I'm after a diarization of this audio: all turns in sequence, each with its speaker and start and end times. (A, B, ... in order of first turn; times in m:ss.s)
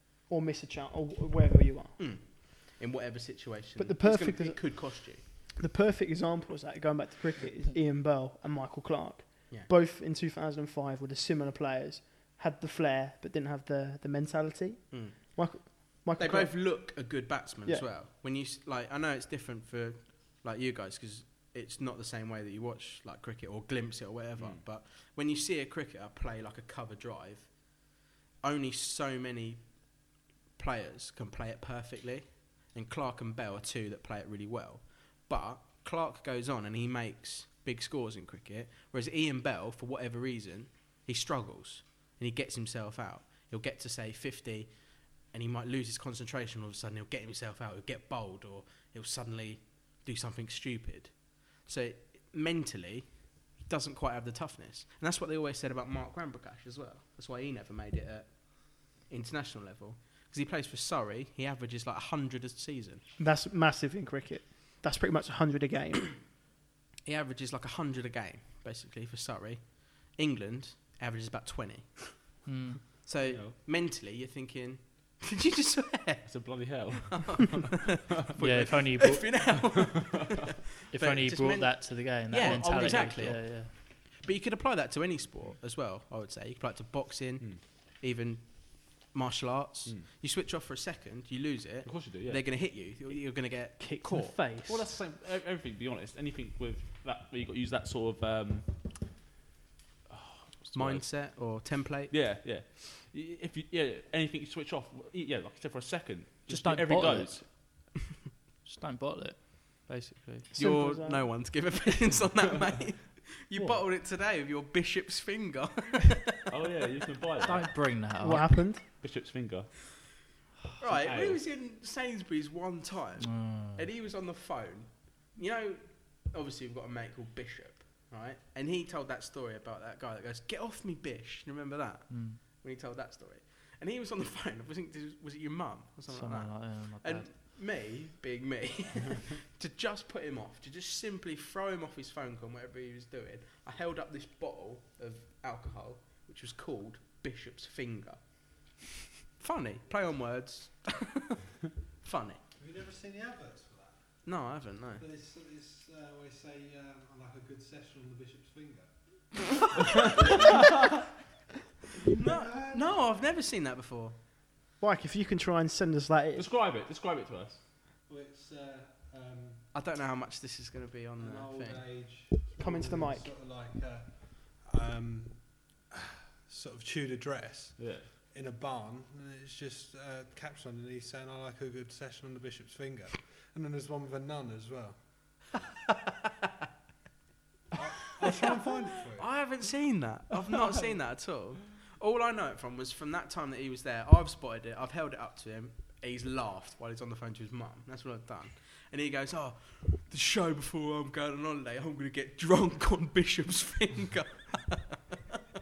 0:00.3-0:02.0 A
0:02.0-0:05.2 B
0:03.8-0:16.9 A
0:14.9-0:27.8 B
0:24.4-0:24.6 C
0:28.4-1:03.0 B
1:03.2-1:06.2 A
1:07.1-1:12.4 B
1:12.5-1:12.8 D
1:13.0-1:34.4 B
1:13.2-1:13.6 C
1:16.2-1:17.9 C
1:18.4-1:19.3 D
1:20.9-1:23.7 D
1:22.4-1:23.4 C
1:31.8-1:32.4 C
1:33.8-1:34.9 D
1:34.6-1:38.9 C
1:40.1-1:41.2 C
1:40.7-1:42.1 B
1:42.1-1:47.5 C
1:46.5-1:47.6 D
1:48.6-1:50.5 D
1:50.5-1:51.5 A
1:50.5-1:56.2 B
1:53.6-1:53.8 D
1:56.5-1:57.7 C
1:57.4-1:58.6 D
1:58.2-1:58.8 A
1:59.0-1:59.7 C
2:00.8-2:28.2 B
2:00.8-2:01.4 C
2:03.2-2:03.9 D
2:12.1-2:12.4 D
2:16.1-2:17.3 D
2:29.4-2:31.2 B
2:32.0-2:32.4 B
2:32.6-2:34.4 E
2:34.2-2:35.0 B
2:35.0-2:39.2 E
2:40.0-2:40.8 E
2:42.1-2:44.1 B
2:42.1-2:43.2 E
2:44.8-2:46.5 A
2:46.4-2:47.6 C
2:48.1-2:49.7 E
2:49.7-2:51.8 B
2:51.2-3:05.0 E
2:52.6-2:53.3 A
2:57.8-2:58.1 C
3:07.7-3:09.5 E
3:08.1-3:25.0 B